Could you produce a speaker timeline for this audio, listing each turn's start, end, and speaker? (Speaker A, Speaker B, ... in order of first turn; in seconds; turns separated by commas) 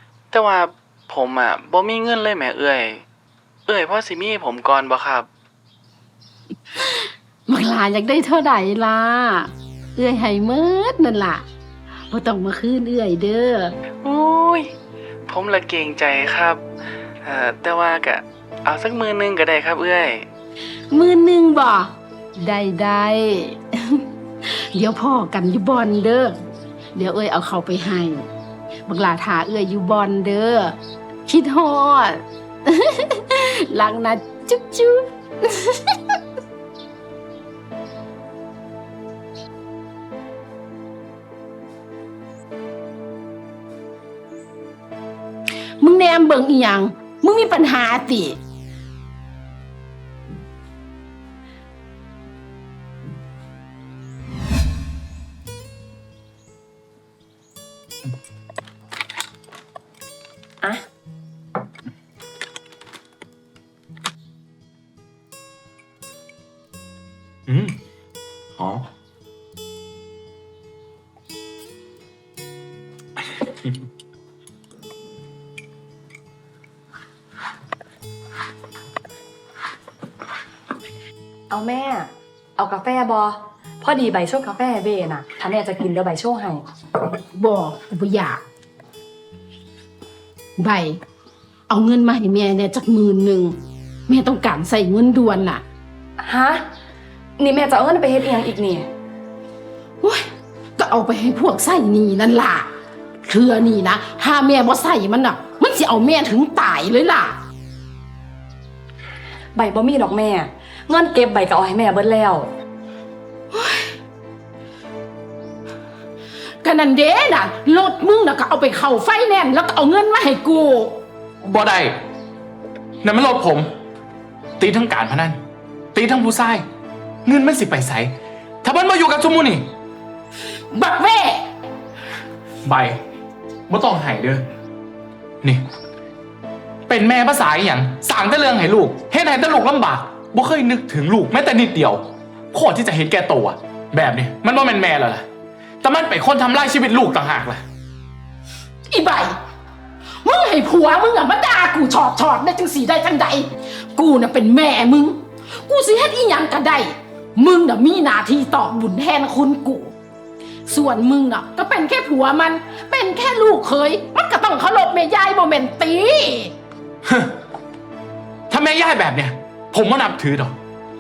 Speaker A: 0.3-3.0, Speaker A: 3.7-5.3, Speaker B: 7.5-11.4, Speaker B: 12.1-13.7, Speaker A: 14.0-14.7, Speaker A: 15.3-16.6, Speaker A: 17.2-20.3, Speaker B: 20.9-26.4, Speaker B: 26.9-28.3, Speaker B: 28.9-36.1, Speaker B: 45.8-48.4, Speaker C: 67.5-67.8, Speaker C: 68.6-68.9, Speaker C: 73.4-73.7, Speaker D: 81.5-86.6, Speaker B: 87.3-88.4, Speaker B: 90.6-91.0, Speaker B: 91.7-95.6, Speaker D: 96.2-96.6, Speaker D: 97.4-98.9, Speaker B: 100.0-102.7, Speaker B: 103.3-107.4, Speaker D: 109.6-112.5, Speaker B: 113.5-113.9, Speaker B: 116.6-121.0, Speaker C: 121.4-122.0, Speaker C: 123.0-123.7, Speaker C: 124.6-125.4, Speaker C: 125.9-126.6, Speaker C: 127.3-129.7, Speaker B: 130.7-131.5, Speaker C: 132.7-133.0, Speaker C: 133.7-134.5, Speaker C: 136.9-145.3, Speaker C: 145.8-147.6, Speaker B: 148.9-149.4, Speaker B: 150.2-159.9, Speaker B: 160.7-166.5, Speaker C: 167.1-167.3, Speaker C: 168.5-170.6